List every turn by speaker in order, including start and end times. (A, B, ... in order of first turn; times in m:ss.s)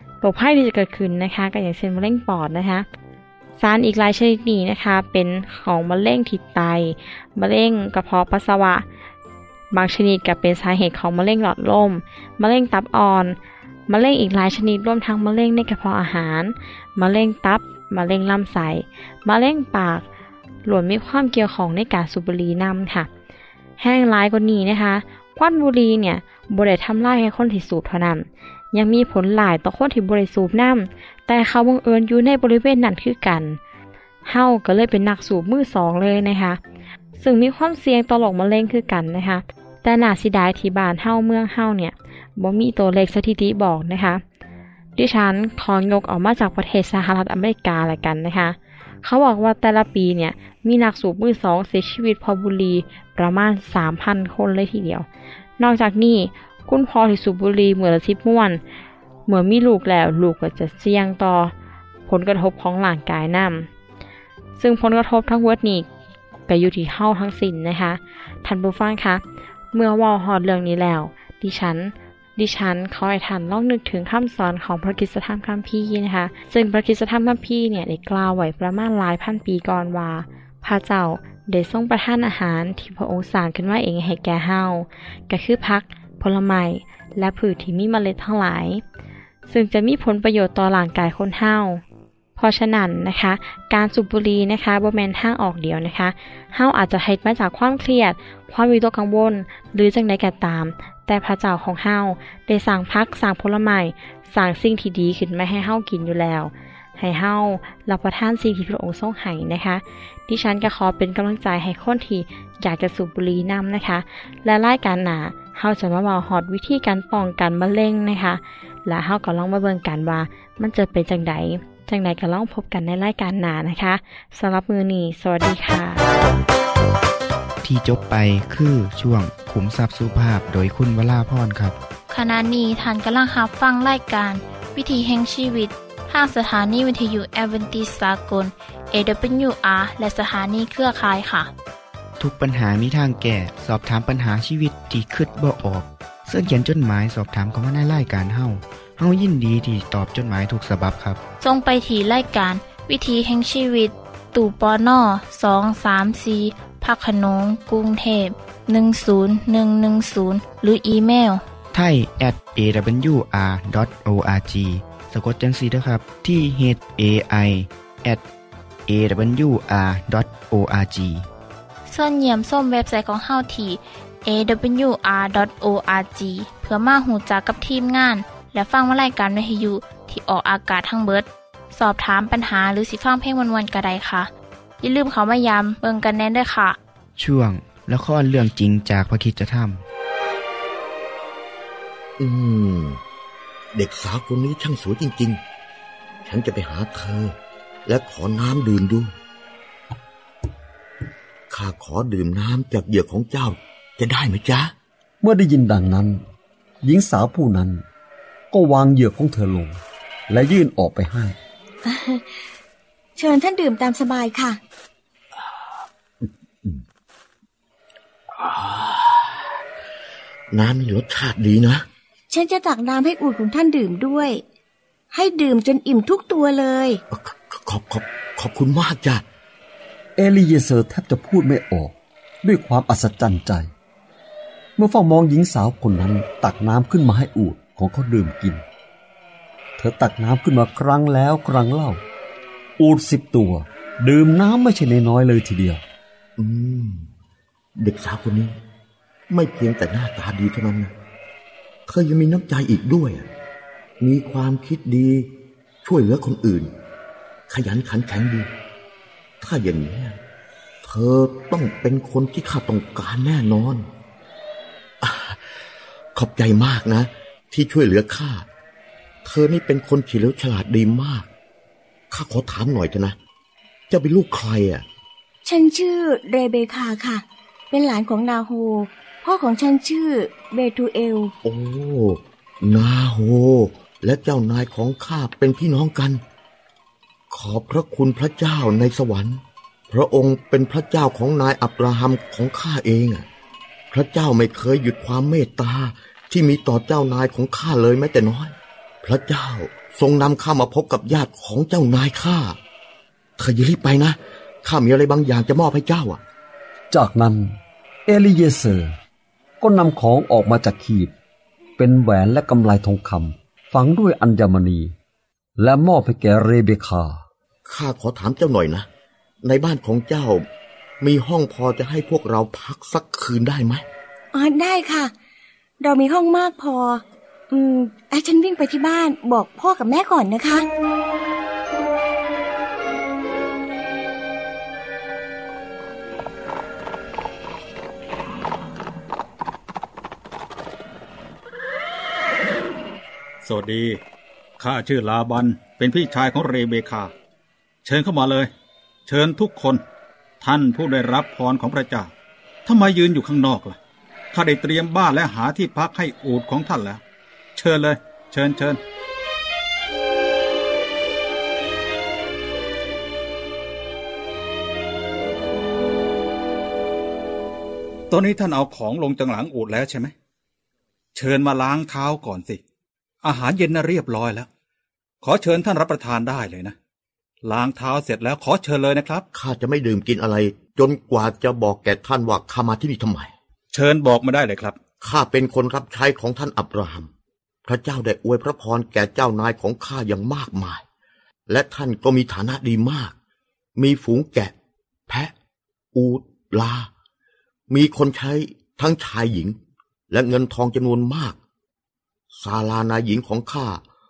0:00.2-0:02.9 A
0:03.6-0:08.8 A
0:09.7-0:13.4 A
0:13.9-0:20.0 A
0:20.6-0:23.1 A
0:23.8-0:33.6 A
0:34.3-0:36.6 A
0:37.2-0:44.2 A
0:45.0-0:55.1 A
0:55.6-0:58.6 A
0:59.3-1:01.5 A
1:02.1-1:03.7 A
1:04.6-1:05.9 A
1:06.5-1:28.8 A
1:29.5-1:31.8 A
1:32.4-2:06.0 A
2:07.6-2:11.8 B
2:12.1-2:21.5 C
2:22.2-2:31.2 B
2:31.4-2:41.4 C
2:41.7-2:48.2 B
2:48.9-2:51.2 B
2:51.9-3:04.3 C
3:04.8-3:06.8 C
3:07.2-3:09.8 B
3:12.2-3:13.0 D
3:13.7-3:15.4 D
3:16.2-3:17.4 D
3:17.9-3:19.1 D
3:21.5-3:24.7 D
3:25.2-3:26.2 E
3:26.8-3:27.8 E
3:28.5-3:31.4 E
3:31.8-3:32.4 F
3:33.2-3:34.6 F
3:38.3-3:39.5 D
3:40.5-3:41.9 D
3:42.3-3:44.4 F
3:45.1-3:47.0 F
3:47.1-3:49.2 D
3:50.2-3:53.7 E
3:54.8-3:58.6 E
3:59.8-4:02.0 E
4:02.8-4:05.8 E
4:06.4-4:07.1 D
4:07.8-4:08.5 D
4:09.3-4:10.9 D
4:11.9-4:13.2 D
4:14.0-4:15.3 D
4:15.8-4:16.7 D
4:17.5-4:18.5 D
4:19.4-4:20.2 D
4:20.8-4:23.9 D
4:25.0-4:25.5 D
4:26.2-4:28.4 D
4:29.2-4:31.3 D
4:32.1-4:33.2 D
4:33.9-4:34.8 D
4:35.4-4:41.3 F
4:41.4-4:46.2 D
4:47.3-4:53.3 D
4:53.9-5:02.6 D
5:03.4-5:06.2 D
5:06.9-5:09.0 E
5:09.6-5:11.1 E
5:11.8-5:14.9 E
5:15.6-5:17.2 E
5:17.7-5:18.9 D
5:19.4-5:20.4 D
5:21.0-5:23.8 D
5:24.3-5:25.1 F
5:25.8-5:30.7 F
5:43.4-5:44.0 G
5:44.6-5:47.1 G
5:47.8-5:48.5 G
5:49.1-5:49.8 G
5:50.4-5:52.1 G
5:52.7-5:53.8 G
5:54.3-5:57.0 G
5:57.6-5:58.8 G
6:08.1-6:10.1 G
6:11.2-6:12.6 G
6:13.2-6:14.5 G
6:15.2-6:16.8 G
6:17.4-6:19.2 G
6:19.3-6:23.3 D
6:23.7-6:24.8 G
6:25.0-6:27.1 D
6:27.6-6:30.8 D
6:31.5-6:33.1 D
6:33.8-6:34.5 D
6:35.9-6:36.9 D
6:37.7-6:39.6 D
6:40.1-6:41.4 D
6:42.3-6:43.8 D